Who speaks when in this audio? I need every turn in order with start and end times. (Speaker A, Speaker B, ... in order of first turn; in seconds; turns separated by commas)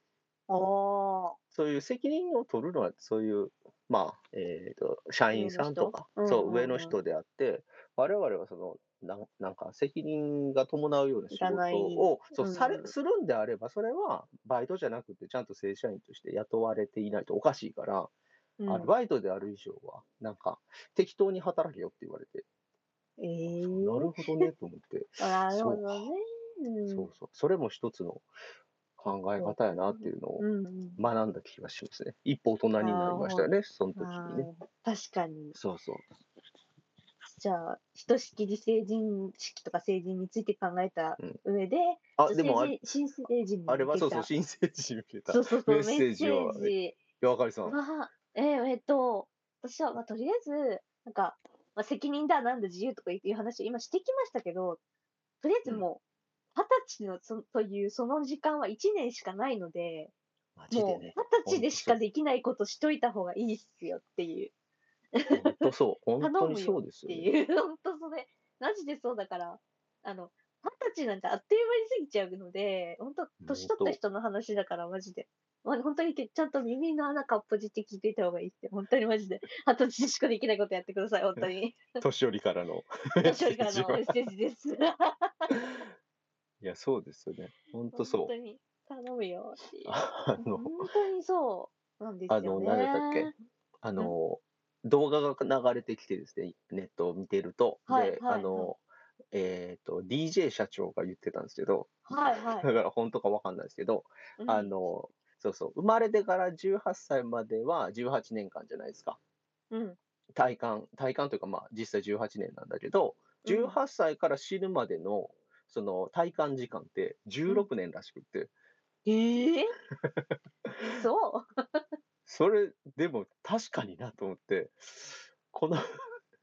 Speaker A: 0.5-1.4, Speaker B: 1.5-18.1, Speaker A: 5.3-7.0, Speaker A: 11.3-12.9, Speaker A: 18.6-18.9, Speaker B: 18.7-22.4, Speaker A: 23.2-24.2, Speaker B: 23.5-26.1, Speaker A: 25.2-27.1, Speaker B: 26.9-28.3, Speaker B: 29.0-30.4, Speaker A: 29.4-31.0, Speaker B: 31.0-34.5, Speaker A: 32.8-35.6, Speaker B: 35.5-36.1, Speaker A: 37.3-44.3, Speaker B: 42.2-42.9, Speaker B: 43.7-47.8, Speaker A: 45.3-47.0, Speaker A: 47.6-54.8, Speaker A: 55.4-56.0, Speaker A: 56.5-60.1, Speaker B: 60.6-62.0, Speaker A: 60.7-64.5, Speaker A: 65.2-65.7, Speaker B: 65.3-67.3, Speaker A: 66.2-82.0, Speaker B: 73.4-74.0, Speaker B: 82.0-84.2, Speaker A: 83.2-85.6, Speaker B: 86.6-88.3, Speaker A: 87.9-93.3, Speaker B: 89.9-90.9, Speaker B: 92.3-93.3, Speaker B: 93.8-109.2, Speaker A: 97.9-98.7, Speaker A: 102.1-102.7, Speaker A: 104.4-104.7, Speaker A: 109.7-110.0, Speaker B: 110.4-118.5, Speaker A: 113.4-113.8, Speaker A: 119.1-119.8, Speaker B: 120.0-120.3, Speaker A: 120.8-121.8, Speaker B: 122.3-125.8